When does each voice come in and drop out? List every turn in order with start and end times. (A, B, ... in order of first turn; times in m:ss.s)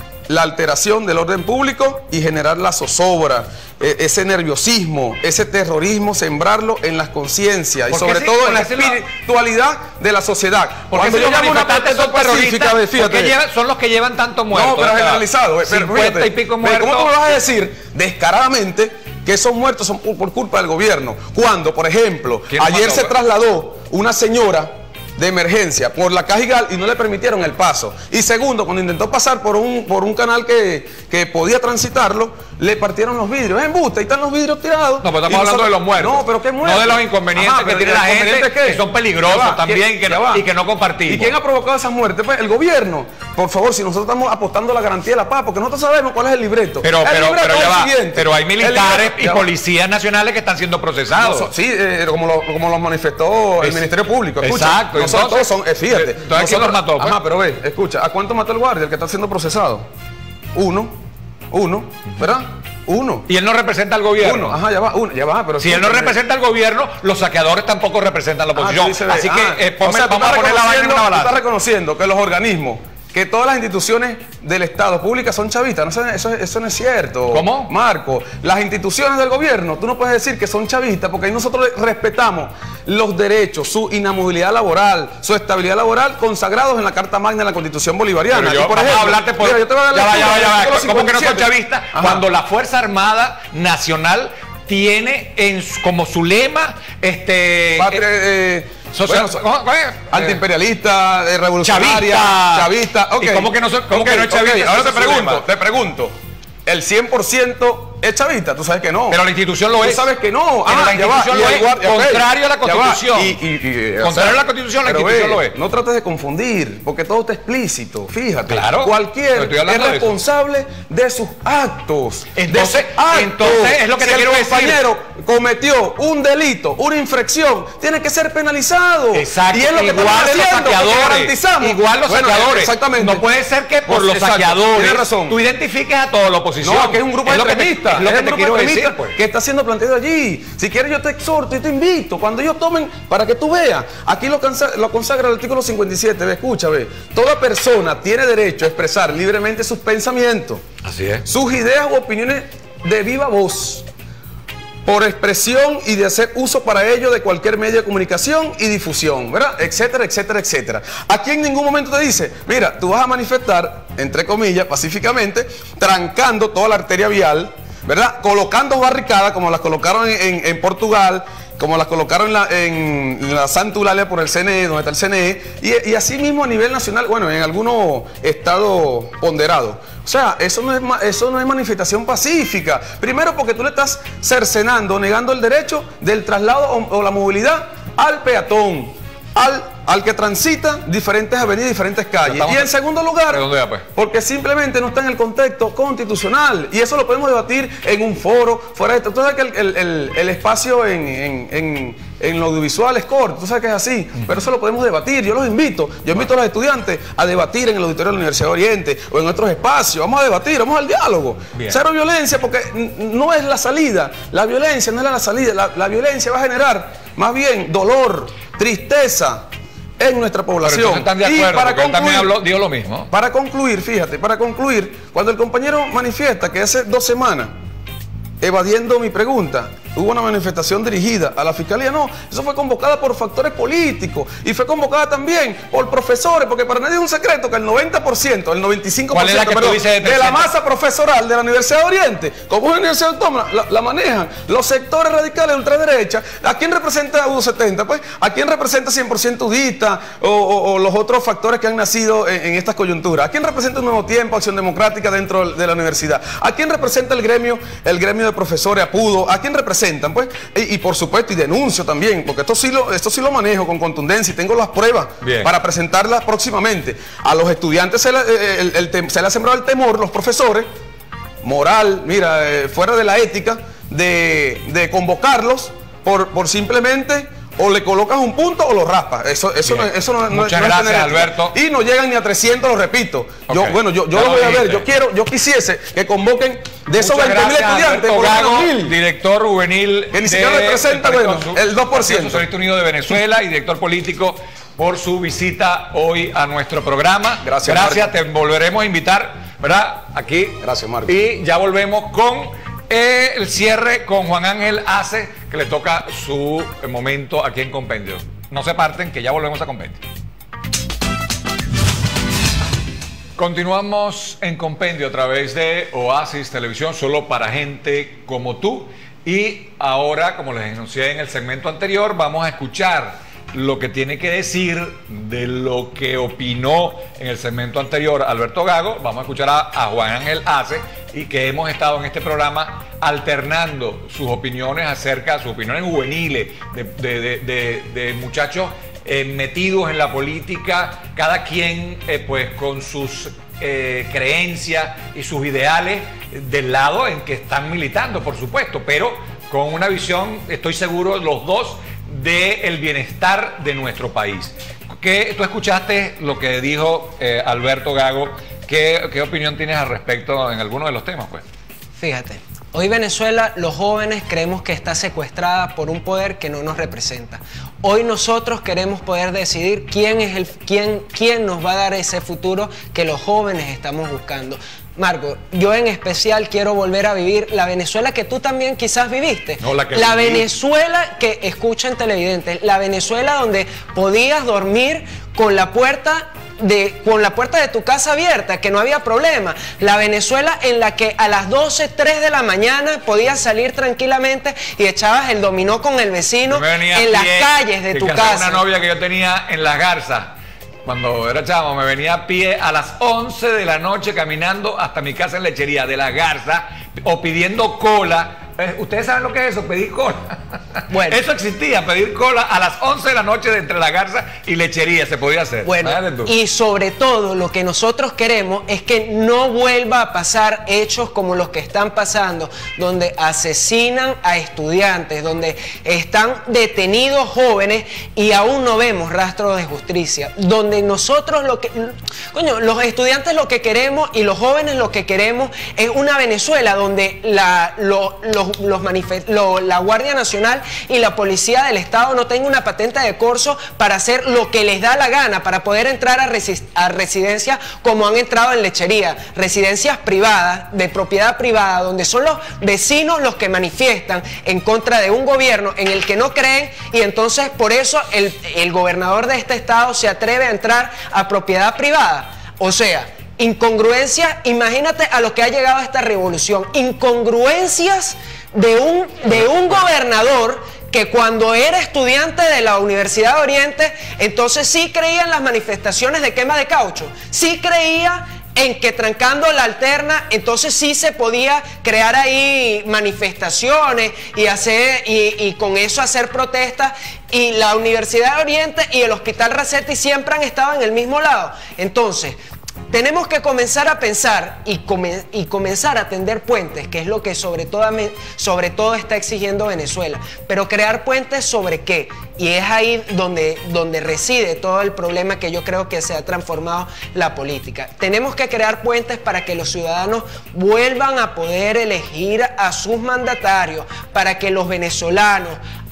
0:00.3-0:13.4 A
0:07.9-0:09.0 B
0:10.9-0:17.1 B
0:14.5-0:40.4 A
0:22.5-0:23.1 B
0:35.0-0:41.3 B
0:41.0-0:49.4 A
0:46.8-0:51.5 B
0:51.2-0:59.9 A
0:53.6-0:57.2 B
1:00.5-1:01.0 A
1:01.5-1:03.2 A
1:03.3-1:04.6 B
1:04.2-1:06.2 A
1:05.6-1:11.3 B
1:08.5-1:32.2 A
1:17.3-1:17.7 B
1:28.3-1:38.0 B
1:37.8-1:39.4 A
1:38.9-1:40.4 B
1:40.1-1:46.1 A
1:41.6-1:45.4 B
1:46.6-1:49.2 A
1:49.1-1:50.1 B
1:49.8-2:13.2 A
1:50.6-1:53.4 B
1:54.0-1:55.6 B
1:58.5-2:00.1 B
2:02.4-2:04.8 B
2:09.1-2:19.2 B
2:13.8-2:15.4 A
2:16.6-2:30.6 A
2:30.8-2:31.2 B
2:31.2-2:33.8 A
2:34.8-3:39.4 A
3:12.2-3:12.7 B
3:13.3-3:13.8 B
3:40.0-3:42.3 A
3:40.6-3:43.1 B
3:43.1-3:47.5 A
3:48.4-4:30.7 A
3:59.1-4:00.5 B
4:25.2-4:25.5 B
4:31.4-4:49.0 A
4:39.6-4:41.5 B
4:43.5-4:44.8 B
4:47.0-5:10.0 B
4:50.1-4:52.4 A
4:57.4-4:58.1 A
5:00.6-5:01.2 A
5:13.4-6:01.4 B
6:02.0-6:38.6 C
6:19.6-6:20.5 B
6:36.5-6:40.3 B
6:40.8-6:56.3 B
6:50.9-6:51.2 C
6:55.6-8:12.4 C
8:12.9-8:35.6 C